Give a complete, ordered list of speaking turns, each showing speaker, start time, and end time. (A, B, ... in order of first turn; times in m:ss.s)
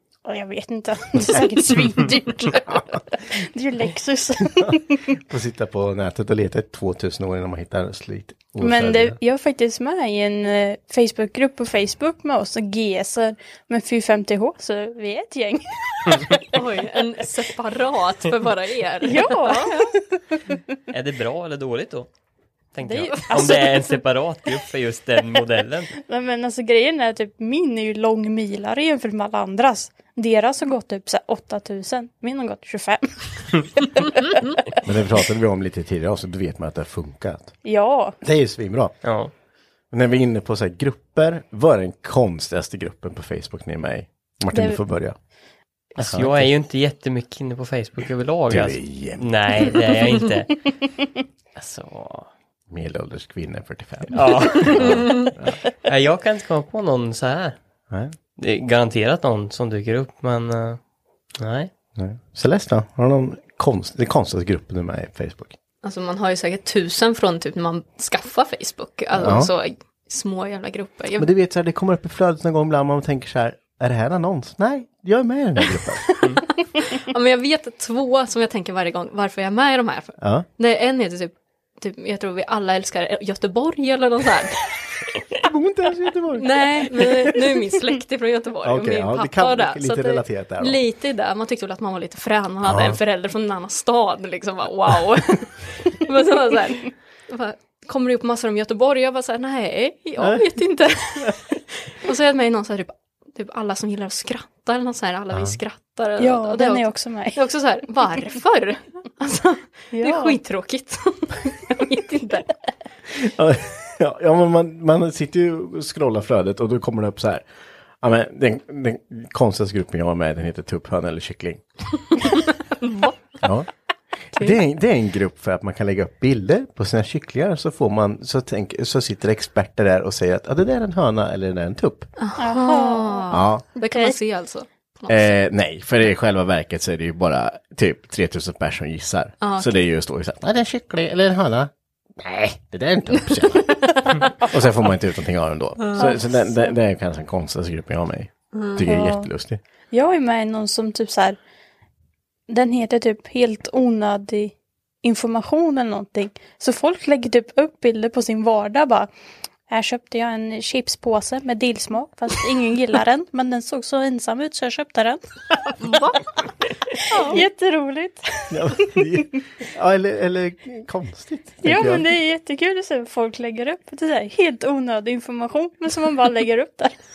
0:00.2-0:05.0 A
0:04.6-0:09.2 B
0:08.6-0:16.2 A
0:16.5-0:19.9 C
0:19.1-0:19.8 A
0:20.9-0:22.1 D
0:22.7-0:25.9 D
0:22.8-0:23.8 A
0:26.0-0:33.1 A
0:34.8-0:37.5 B
0:37.6-0:38.2 A
0:38.2-0:39.0 B
0:39.0-0:39.3 D
0:39.9-0:45.2 B
0:44.5-0:44.8 A
0:46.0-0:46.5 B
0:46.0-0:50.5 D
0:48.5-0:49.7 B
0:51.6-0:52.3 D
0:52.7-0:55.6 B
0:54.1-0:55.2 D
0:55.8-0:57.6 D
0:58.4-1:00.8 D
1:01.4-1:01.7 D
1:02.0-1:05.6 B
1:05.8-1:11.3 C
1:09.1-1:09.5 B
1:11.2-1:16.0 B
1:16.8-1:24.6 C
1:20.2-1:20.4 B
1:25.4-1:27.7 B
1:26.4-1:52.5 C
1:28.6-1:30.8 B
1:32.6-1:33.0 B
1:46.2-1:47.4 A
1:49.9-1:50.3 A
1:53.1-1:57.4 B
1:58.0-2:01.6 B
2:02.8-2:03.1 C
2:03.4-2:03.7 B
2:04.3-2:12.1 B
2:12.2-2:15.4 C
2:12.4-2:13.3 A
2:13.3-2:13.6 B
2:15.1-2:23.8 B
2:19.4-2:19.8 C
2:24.4-2:29.6 B
2:25.8-2:26.2 C
2:28.5-2:28.8 C
2:28.8-2:29.3 A
2:29.9-2:31.4 A
2:32.5-2:39.1 A
2:39.7-2:45.2 A
2:45.8-2:46.3 C
2:47.1-2:47.4 C
2:47.1-2:48.5 A
2:48.5-2:52.0 B
2:51.6-2:56.9 A